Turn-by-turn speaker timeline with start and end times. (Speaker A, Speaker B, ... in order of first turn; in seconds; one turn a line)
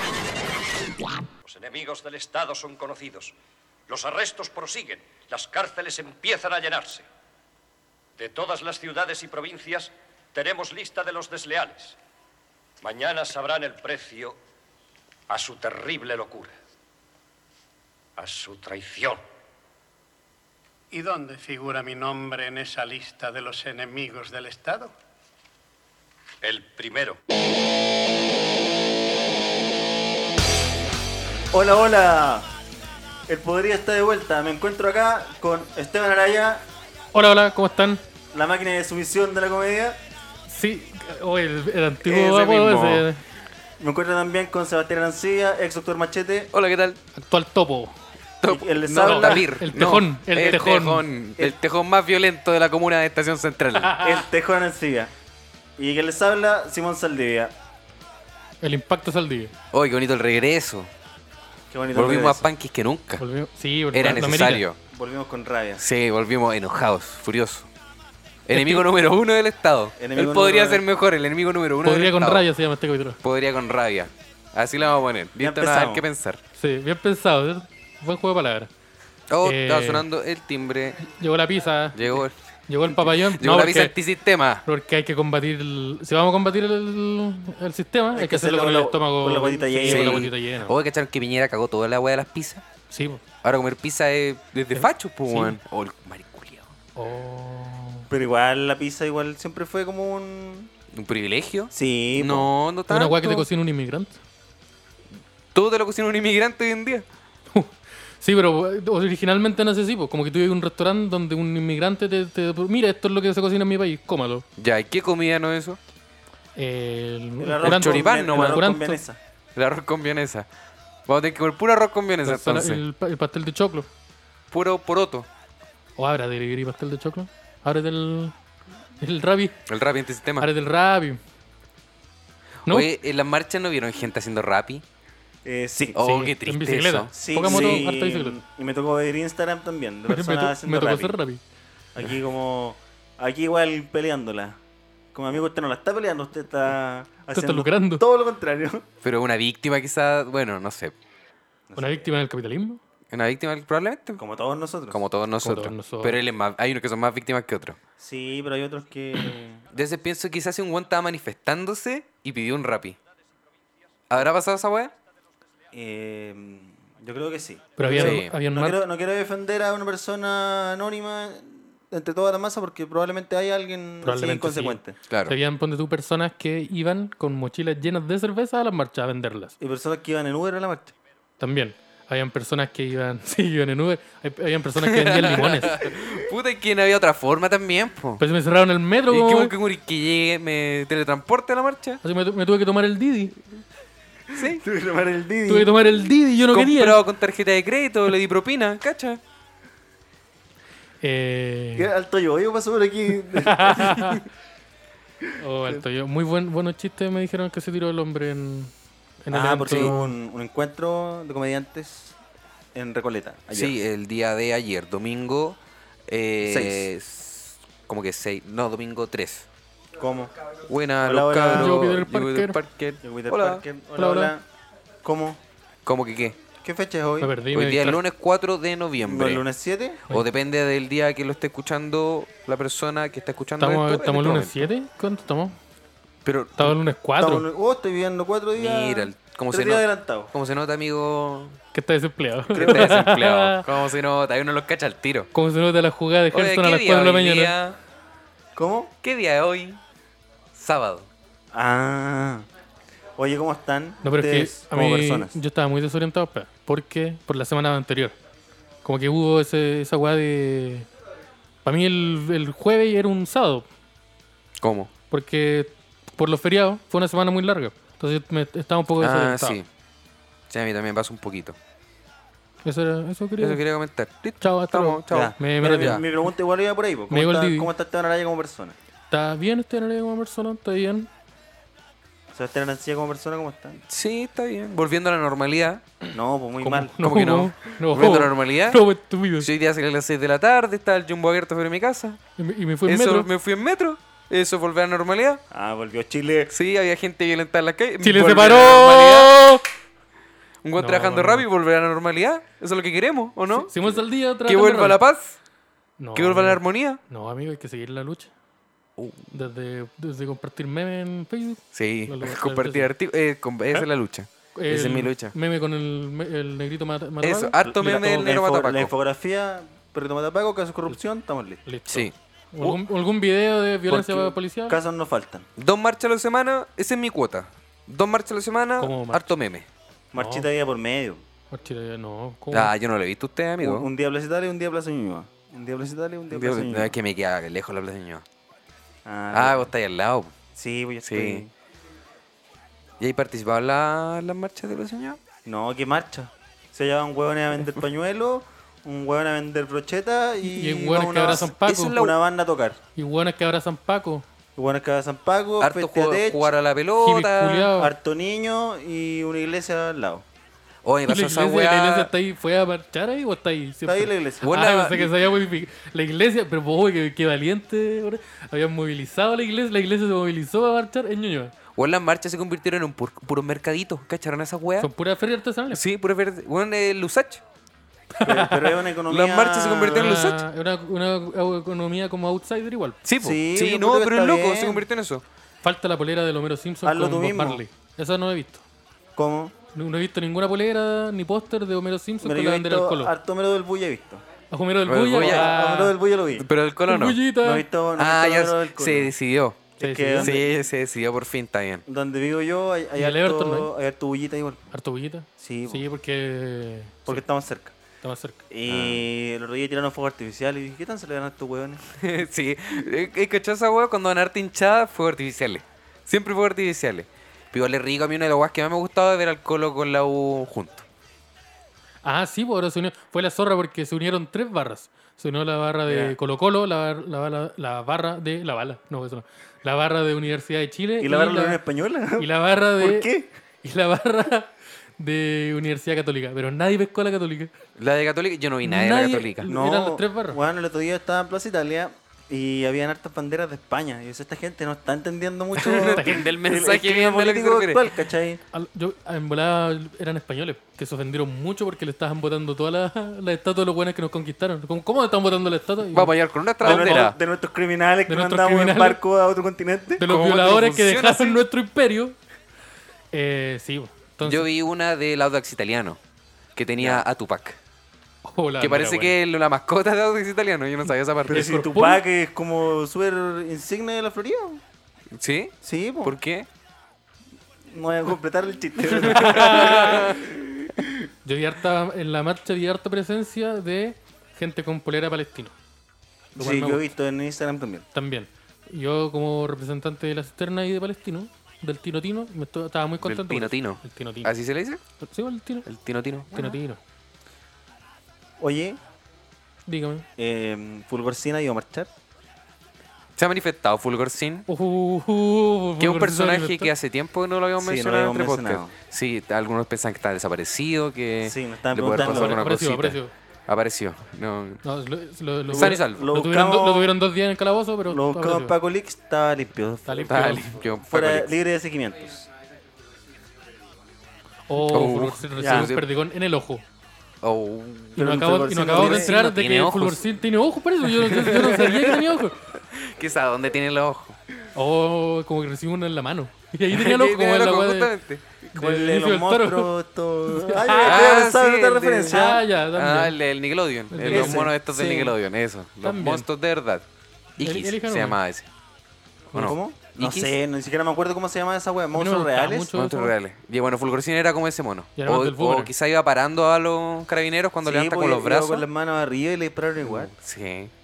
Speaker A: 1.4-3.4
Speaker A: 3.9-7.0
Speaker A: 8.2-12.0
Speaker A: 12.8-14.4
Speaker A: 15.3-16.6
Speaker A: 18.2-19.2
Speaker B: 20.9-24.9
Speaker A: 26.4-27.2
Speaker C: 31.5-32.5
Speaker C: 33.3-36.6
Speaker D: 37.1-38.0
Speaker C: 38.3-40.0
Speaker D: 40.5-43.2
Speaker E: 42.0-43.1
Speaker C: 43.8-46.5
Speaker E: 46.5-47.0
Speaker D: 47.1-48.0
Speaker E: 48.4-54.0
Speaker C: 48.5-49.5
Speaker D: 49.0-51.1
Speaker D: 53.8-54.2
Speaker C: 54.0-55.1
Speaker C: 55.8-57.5
Speaker D: 58.6-59.5
Speaker E: 59.7-60.9
Speaker C: 61.7-62.5
Speaker E: 61.9-63.2
Speaker D: 63.2-64.6
Speaker E: 63.9-64.8
Speaker C: 64.0-65.8
Speaker E: 65.8-67.7
Speaker E: 68.5-72.5
Speaker D: 68.5-68.9
Speaker C: 70.0-70.8
Speaker D: 71.8-73.2
Speaker E: 73.2-76.4
Speaker C: 75.4-76.0
Speaker D: 76.5-78.7
Speaker E: 79.3-81.0
Speaker D: 79.4-80.0
Speaker D: 81.0-84.0
Speaker E: 82.0-82.3
Speaker E: 82.9-84.6
Speaker D: 84.7-90.8
Speaker C: 88.1-90.3
Speaker E: 89.9-92.6
Speaker D: 92.9-93.2
Speaker E: 93.4-96.7
Speaker D: 94.8-95.6
Speaker D: 97.0-98.1
Speaker C: 98.1-100.7
Speaker E: 100.9-103.5
Speaker C: 101.7-102.5
Speaker D: 102.9-104.2
Speaker E: 105.5-107.0
Speaker D: 107.5-114.5
Speaker E: 114.6-115.8
Speaker D: 116.6-119.0
Speaker C: 117.4-119.2
Speaker E: 117.6-118.6
Speaker E: 119.5-120.5
Speaker E: 121.1-122.8
Speaker D: 122.2-123.9
Speaker E: 124.5-125.3
Speaker D: 126.0-128.3
Speaker D: 129.0-129.6
Speaker E: 129.7-130.5
Speaker D: 130.4-131.2
Speaker E: 132.7-134.8
Speaker C: 135.4-136.0
Speaker E: 135.9-137.8
Speaker D: 136.0-138.4
Speaker C: 137.1-141.2
Speaker D: 140.1-141.4
Speaker C: 141.9-144.6
Speaker C: 145.1-148.9
Speaker D: 147.3-148.0
Speaker E: 149.0-150.9
Speaker C: 151.7-152.1
Speaker D: 151.8-152.8
Speaker E: 153.1-154.2
Speaker C: 154.2-155.0
Speaker E: 154.9-157.8
Speaker D: 155.4-156.2
Speaker C: 158.0-159.7
Speaker E: 159.7-163.0
Speaker E: 164.1-164.9
Speaker C: 165.7-175.0
Speaker D: 167.8-168.8
Speaker E: 168.0-168.3
Speaker D: 174.0-179.6
Speaker E: 175.1-175.3
Speaker C: 179.6-180.9
Speaker D: 181.4-185.8
Speaker E: 184.8-188.2
Speaker D: 188.2-189.5
Speaker E: 189.1-192.0
Speaker D: 192.0-193.4
Speaker E: 194.3-194.6
Speaker C: 194.3-195.8
Speaker D: 195.5-197.0
Speaker E: 196.5-199.2
Speaker D: 201.0-201.9
Speaker C: 201.8-204.2
Speaker D: 203.3-204.2
Speaker D: 205.4-208.7
Speaker D: 209.2-210.1
Speaker C: 209.3-212.2
Speaker C: 212.8-213.8
Speaker E: 213.5-219.5
Speaker C: 216.4-216.9
Speaker C: 220.0-220.3
Speaker E: 220.7-223.6
Speaker C: 221.0-221.8
Speaker D: 221.5-222.6
Speaker C: 223.0-224.4
Speaker D: 224.0-224.3
Speaker C: 225.0-225.4
Speaker E: 225.8-226.4
Speaker C: 226.6-227.3
Speaker D: 227.2-228.0
Speaker E: 227.5-229.4
Speaker C: 229.0-230.1
Speaker E: 230.1-234.7
Speaker D: 233.6-235.6
Speaker E: 236.2-236.8
Speaker D: 236.6-237.5
Speaker C: 237.2-240.3
Speaker E: 238.6-241.6
Speaker D: 241.7-243.7
Speaker E: 242.5-245.3
Speaker C: 242.6-243.1
Speaker D: 245.3-247.6
Speaker E: 246.3-247.8
Speaker C: 248.6-248.9
Speaker E: 249.0-249.8
Speaker E: 250.6-251.1
Speaker C: 251.5-252.5
Speaker C: 253.2-255.4
Speaker D: 254.0-258.2
Speaker D: 258.8-260.9
Speaker D: 261.6-263.7
Speaker E: 264.6-264.9
Speaker D: 265.1-269.6
Speaker E: 269.0-269.7
Speaker E: 270.5-271.6
Speaker D: 272.6-273.6
Speaker E: 273.4-276.0
Speaker D: 274.4-276.1
Speaker C: 275.1-278.8
Speaker D: 277.1-277.7
Speaker D: 279.1-281.1
Speaker C: 282.3-283.8
Speaker E: 283.9-285.8
Speaker C: 286.1-286.9
Speaker D: 286.6-289.5
Speaker E: 287.0-288.8
Speaker E: 289.4-292.2
Speaker D: 292.4-293.3
Speaker E: 292.9-295.4
Speaker C: 295.5-296.5
Speaker E: 296.5-299.6
Speaker D: 298.0-299.6
Speaker E: 300.6-305.4
Speaker D: 300.8-301.5
Speaker D: 303.5-305.0
Speaker D: 306.0-308.3
Speaker E: 306.1-307.0
Speaker E: 309.0-309.3
Speaker D: 309.3-312.9
Speaker E: 311.7-315.4
Speaker D: 314.6-317.6
Speaker E: 317.2-318.9
Speaker C: 317.6-321.6
Speaker D: 321.7-324.8
Speaker E: 321.9-322.8
Speaker E: 323.9-324.2
Speaker C: 323.9-325.5
Speaker E: 325.6-329.7
Speaker D: 328.8-329.3
Speaker C: 330.1-331.2
Speaker D: 330.2-330.5
Speaker D: 331.5-332.7
Speaker E: 332.5-333.9
Speaker C: 333.6-337.0
Speaker E: 336.3-338.2
Speaker C: 339.1-339.7
Speaker E: 339.3-340.3
Speaker C: 340.6-341.5
Speaker E: 341.1-341.4
Speaker E: 343.0-345.2
Speaker C: 345.4-352.8
Speaker D: 350.4-351.9
Speaker E: 351.4-352.2
Speaker D: 353.0-354.2
Speaker C: 354.6-356.6
Speaker E: 355.6-357.7
Speaker D: 357.0-357.9
Speaker C: 357.8-360.2
Speaker E: 360.9-362.1
Speaker D: 361.1-371.6
Speaker C: 363.9-364.5
Speaker E: 364.4-365.1
Speaker E: 371.8-374.9
Speaker D: 374.8-375.8
Speaker E: 375.7-377.4
Speaker D: 378.1-378.8
Speaker C: 378.2-380.3
Speaker E: 379.1-380.4
Speaker D: 379.9-383.0
Speaker E: 383.1-385.2
Speaker C: 383.2-384.9
Speaker D: 385.6-388.6
Speaker C: 386.8-387.6
Speaker C: 389.2-389.5
Speaker D: 389.7-393.1
Speaker C: 392.2-394.2
Speaker D: 394.5-396.0
Speaker E: 394.9-395.6
Speaker C: 395.2-396.5
Speaker E: 396.4-397.2
Speaker D: 396.9-397.7
Speaker C: 397.4-399.1
Speaker E: 398.0-399.7
Speaker C: 399.8-400.5
Speaker D: 399.8-400.3
Speaker E: 400.2-401.8
Speaker C: 401.9-404.7
Speaker D: 403.0-403.7
Speaker D: 404.7-407.2
Speaker C: 405.4-405.9
Speaker C: 407.1-407.8
Speaker D: 408.0-408.4
Speaker C: 408.5-411.9
Speaker E: 408.7-409.0
Speaker E: 412.0-420.9
Speaker D: 422.0-431.6
Speaker C: 425.9-426.2
Speaker C: 431.0-433.3
Speaker D: 432.2-433.1
Speaker D: 433.6-437.5
Speaker E: 437.8-439.5
Speaker D: 438.6-440.4
Speaker C: 439.4-448.4
Speaker E: 445.6-447.8
Speaker D: 445.9-446.2
Speaker D: 448.5-457.1
Speaker E: 455.9-457.2
Speaker C: 456.6-460.1
Speaker D: 458.1-459.0
Speaker D: 460.0-462.2
Speaker E: 460.1-461.4
Speaker D: 463.1-464.5
Speaker E: 464.2-466.0
Speaker E: 466.6-467.6
Speaker C: 466.8-467.1
Speaker D: 468.2-469.1
Speaker E: 468.6-471.5
Speaker C: 471.3-474.6
Speaker D: 471.3-472.0
Speaker E: 475.1-476.5
Speaker C: 475.6-476.1
Speaker C: 477.7-480.9
Speaker D: 478.9-480.2
Speaker E: 479.2-480.1
Speaker D: 481.2-485.5
Speaker C: 486.4-487.9
Speaker D: 486.4-486.9
Speaker D: 487.9-494.3
Speaker E: 493.0-494.8
Speaker D: 495.0-495.7
Speaker E: 495.7-496.5
Speaker D: 496.3-496.8
Speaker C: 498.4-498.8
Speaker D: 499.7-500.1
Speaker C: 500.2-501.9
Speaker E: 503.2-504.5
Speaker D: 504.5-506.7
Speaker E: 505.8-514.6
Speaker C: 507.6-508.7
Speaker C: 511.2-512.4
Speaker D: 512.0-513.1
Speaker D: 514.6-518.6
Speaker C: 515.5-517.0
Speaker E: 515.5-516.1
Speaker C: 517.9-522.3
Speaker D: 519.9-520.5
Speaker E: 520.1-521.3
Speaker D: 524.5-526.6
Speaker E: 524.7-525.9
Speaker C: 525.4-525.7
Speaker E: 527.2-528.0
Speaker C: 528.0-529.1
Speaker D: 528.0-532.4
Speaker E: 528.7-530.0
Speaker E: 531.0-532.0
Speaker E: 532.5-534.2
Speaker D: 534.5-537.9
Speaker E: 536.7-538.2
Speaker C: 538.4-542.4
Speaker D: 538.5-539.7
Speaker D: 540.3-541.2
Speaker E: 540.7-546.9
Speaker D: 542.1-543.2
Speaker D: 543.9-544.5
Speaker C: 544.1-545.2
Speaker D: 545.8-546.3
Speaker E: 547.4-548.5
Speaker D: 547.4-548.2
Speaker C: 549.4-552.7
Speaker E: 549.4-550.3
Speaker D: 551.9-553.1
Speaker E: 552.7-558.6
Speaker D: 555.0-555.7
Speaker C: 557.6-560.1
Speaker E: 559.8-560.7